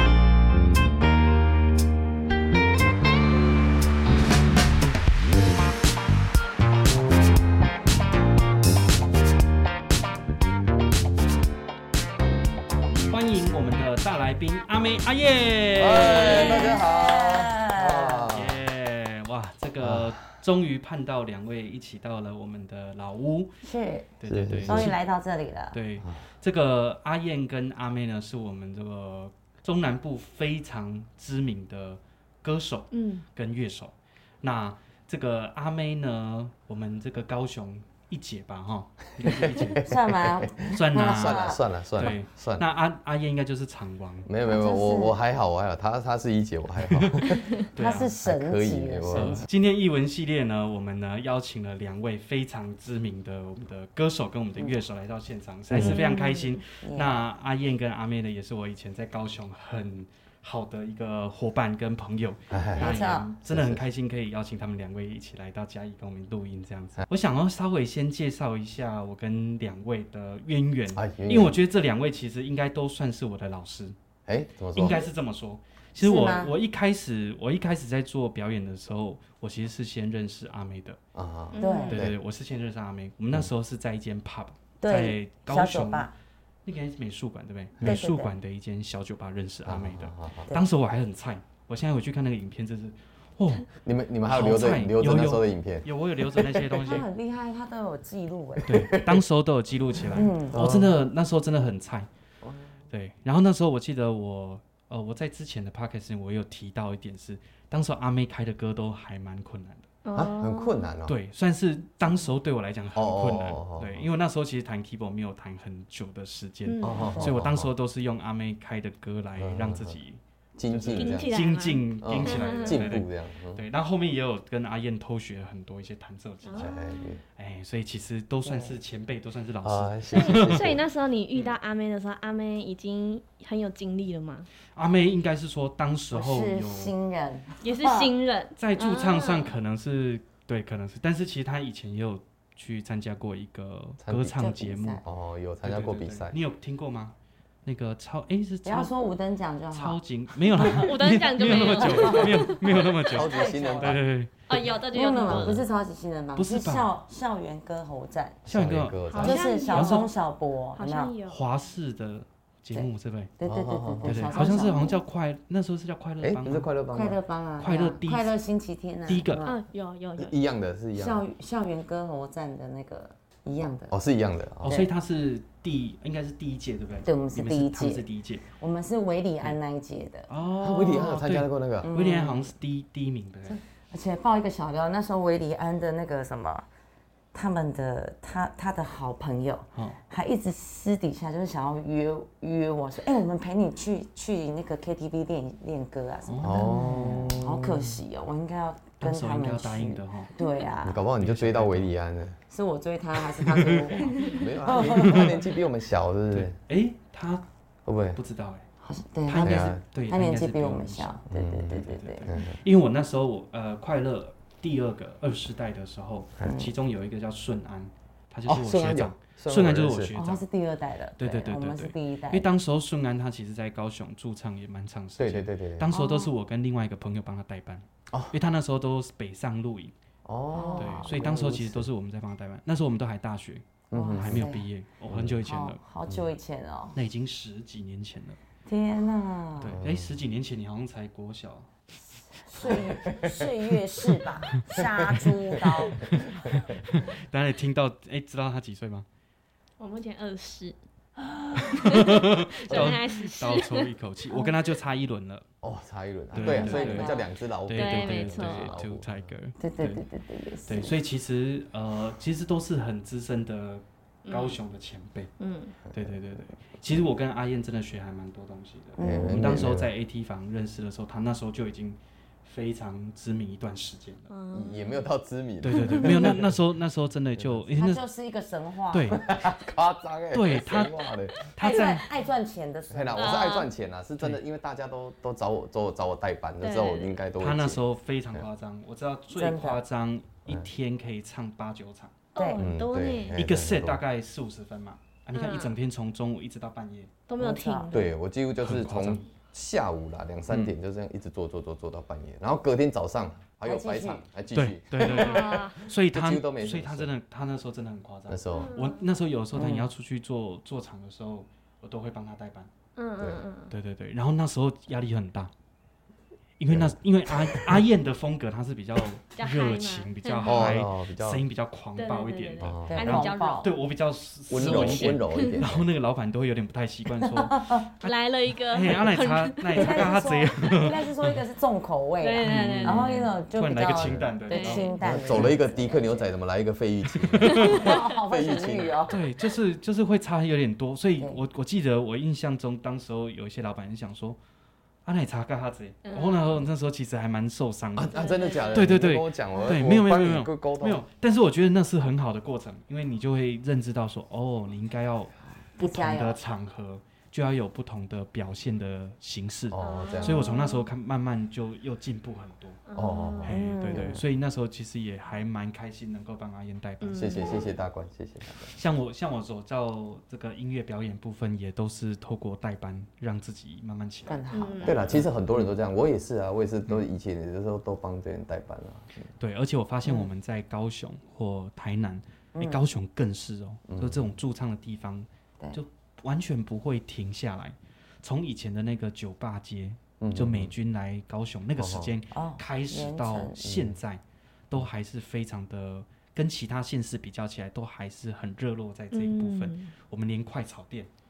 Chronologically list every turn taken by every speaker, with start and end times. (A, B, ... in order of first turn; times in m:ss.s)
0:13.1-0:16.8 A
0:15.8-0:18.6 B
0:15.9-0:18.4 C
0:18.3-0:23.5 A
0:19.8-0:20.2 B
0:23.6-0:25.8 C
0:24.2-0:25.0 A
0:24.3-0:24.9 B
0:25.7-0:39.9 A
0:32.9-0:33.2 D
0:39.2-0:42.6 B
0:39.6-0:41.6 C
0:40.7-0:44.3 A
0:44.3-0:47.6 B
0:44.4-0:45.2 C
0:46.8-0:48.1 A
0:47.8-0:49.5 C
0:48.2-0:49.5 B
0:49.1-1:14.0 A
0:55.7-0:56.0 B
0:55.8-0:56.6 D
0:56.8-0:57.2 C
1:02.5-1:03.8 B
1:02.8-1:03.3 C
1:10.9-1:11.6 B
1:14.3-1:15.0 B
1:14.7-1:21.0 A
1:16.0-1:16.5 C
1:21.2-1:22.2 B
1:21.5-1:22.0 D
1:21.6-1:22.0 C
1:21.9-1:26.1 A
1:24.8-1:26.1 C
1:26.6-1:33.7 A
1:27.8-1:28.3 C
1:29.7-1:30.5 B
1:33.8-1:37.0 B
1:34.3-1:37.1 A
1:36.8-1:38.9 C
1:38.6-1:39.2 B
1:38.7-1:42.1 A
1:40.1-1:40.6 C
1:40.2-1:40.9 B
1:42.9-1:49.9 A
1:50.0-1:50.9 D
1:50.1-1:51.2 B
1:51.1-2:06.7 A
1:53.0-1:54.1 B
1:56.7-1:57.1 D
1:56.8-1:57.7 B
1:56.9-1:57.4 C
1:59.4-2:00.0 B
2:00.6-2:01.4 B
2:00.8-2:02.9 D
2:02.0-2:03.6 B
2:06.4-2:07.2 D
2:06.6-2:07.2 B
2:07.4-2:10.8 A
2:08.4-2:08.8 C
2:09.6-2:10.8 B
2:10.1-2:14.5 D
2:14.8-2:17.0 A
2:16.1-2:18.1 C
2:17.6-2:19.5 D
2:18.6-2:25.0 A
2:24.0-2:24.4 B
2:24.4-2:25.0 C
2:25.0-2:26.4 B
2:25.6-2:28.9 A
2:28.6-2:30.0 C
2:29.7-2:34.3 A
2:30.6-2:33.8 D
2:30.6-2:30.8 C
2:31.8-2:32.4 C
2:33.1-2:34.0 B
2:33.2-2:34.0 C
2:34.5-2:35.6 D
2:34.6-2:38.4 C
2:35.2-2:35.6 B
2:36.4-2:36.9 A
2:38.5-2:39.4 B
2:38.5-2:40.1 A
2:39.1-2:40.2 D
2:39.2-2:41.1 C
2:40.7-2:41.4 D
2:41.3-2:43.3 A
2:43.4-2:45.0 C
2:43.4-2:44.6 B
2:44.0-2:46.7 A
2:46.2-2:47.2 B
2:46.9-2:49.6 C
2:47.6-2:48.4 A
2:49.1-2:49.5 A
2:49.4-2:50.4 D
2:50.2-2:51.2 B
2:51.0-2:54.0 C
2:53.9-2:54.7 B
2:54.6-2:58.4 A
2:54.7-2:54.9 C
2:57.0-2:58.0 C
2:58.6-3:00.3 C
3:00.3-3:03.6 A
3:00.6-3:01.9 B
3:01.8-3:02.5 C
3:03.5-3:06.7 C
3:07.3-3:21.0 C
3:16.3-3:17.4 A
3:16.4-3:17.9 B
3:19.0-3:20.3 A
3:20.8-3:22.4 B
3:21.2-3:21.9 A
3:22.5-3:25.5 C
3:23.4-3:25.4 A
3:24.2-3:26.6 B
3:26.3-3:27.4 A
3:27.9-3:28.2 B
3:28.1-3:28.7 A
3:28.8-3:32.3 C
3:29.3-3:31.2 A
3:29.4-3:29.8 B
3:31.3-3:32.6 B
3:31.8-3:40.4 A
3:36.4-3:36.7 C
3:38.5-3:40.1 B
3:40.1-3:42.5 C
3:41.2-3:49.9 A
3:45.2-3:45.9 B
3:45.9-3:46.3 C
3:50.2-3:51.9 B
3:50.5-3:51.2 C
3:50.8-3:55.8 A
3:53.9-3:54.5 B
3:53.9-3:54.7 C
3:55.1-3:55.4 B
3:55.4-3:57.0 C
3:56.9-3:58.4 A
3:58.7-3:59.8 C
3:59.6-4:01.7 A
3:59.7-4:00.2 B
4:02.4-4:06.6 C
4:02.6-4:03.5 B
4:04.8-4:06.7 B
4:06.0-4:09.1 A
4:09.8-4:10.8 D
4:11.2-4:12.1 C
4:11.6-4:15.5 A
4:11.7-4:14.4 D
4:12.7-4:13.0 B
4:15.6-4:19.3 B
4:16.3-4:17.2 A
4:16.4-4:17.3 C
4:17.7-4:20.0 A
4:17.7-4:18.8 D
4:19.6-4:20.9 C
4:20.7-4:25.3 A
4:24.2-4:24.6 D
4:25.4-4:25.8 D
4:25.9-4:34.3 A
4:29.0-4:29.6 C
4:29.0-4:29.9 B
4:34.3-4:35.0 D
4:34.5-4:36.6 B
4:35.6-4:38.1 A
4:37.4-4:37.7 B
4:37.7-4:39.3 C
4:38.9-4:39.2 A
4:39.2-4:41.4 B
4:40.3-4:42.1 A
4:41.6-4:43.5 C
4:41.6-4:42.0 D
4:42.9-4:47.8 B
4:43.2-4:43.7 D
4:46.6-4:47.2 D
4:47.4-4:52.2 A
4:49.3-4:49.8 C
4:52.4-4:53.4 D
4:52.4-4:52.7 C
4:52.6-4:54.0 B
4:53.3-4:57.1 A
4:55.3-4:55.7 D
4:57.3-4:58.1 D
4:57.4-4:58.1 C
4:57.9-5:07.1 B
4:58.6-4:59.2 A
5:03.6-5:04.2 C
5:04.5-5:12.7 A
5:05.0-5:05.8 D
5:08.3-5:08.8 B
5:08.5-5:09.0 D
5:09.6-5:09.9 C
5:13.0-5:13.7 D
5:13.2-5:13.4 B
5:13.7-5:15.5 A
5:16.6-5:28.1 A
5:16.7-5:17.8 B
5:19.3-5:20.7 D
5:20.4-5:21.4 B
5:22.0-5:23.7 D
5:22.6-5:23.0 B
5:22.9-5:23.7 C
5:24.5-5:25.9 B
5:24.6-5:25.6 D
5:27.2-5:27.9 C
5:28.0-5:30.2 D
5:28.7-5:31.4 A
5:29.7-5:36.3 C
5:32.2-5:33.4 D
5:32.4-5:35.6 A
5:33.9-5:34.2 B
5:34.5-5:35.0 D
5:35.0-5:39.2 B
5:37.1-5:37.9 A
5:37.6-5:39.2 C
5:37.6-5:38.0 D
5:39.1-5:44.4 A
5:45.0-5:48.1 A
5:46.0-5:46.5 D
5:48.0-5:51.0 B
5:48.1-5:49.0 D
5:48.7-6:02.8 A
5:55.8-5:56.4 C
5:59.7-6:00.5 B
5:59.8-6:00.9 D
6:02.9-6:03.6 D
6:03.0-6:04.1 B
6:03.4-6:07.5 A
6:03.5-6:04.2 C
6:07.0-6:07.7 D
6:07.2-6:08.7 B
6:08.7-6:14.4 A
6:14.3-6:15.3 C
6:14.5-6:15.0 D
6:14.8-6:19.3 B
6:19.4-6:41.1 A
6:20.0-6:20.3 C
6:22.6-6:22.8 C
6:23.9-6:24.2 B
6:30.2-6:30.7 B
6:31.8-6:32.1 B
6:32.3-6:33.6 C
6:33.6-6:33.9 B
6:39.1-6:39.9 D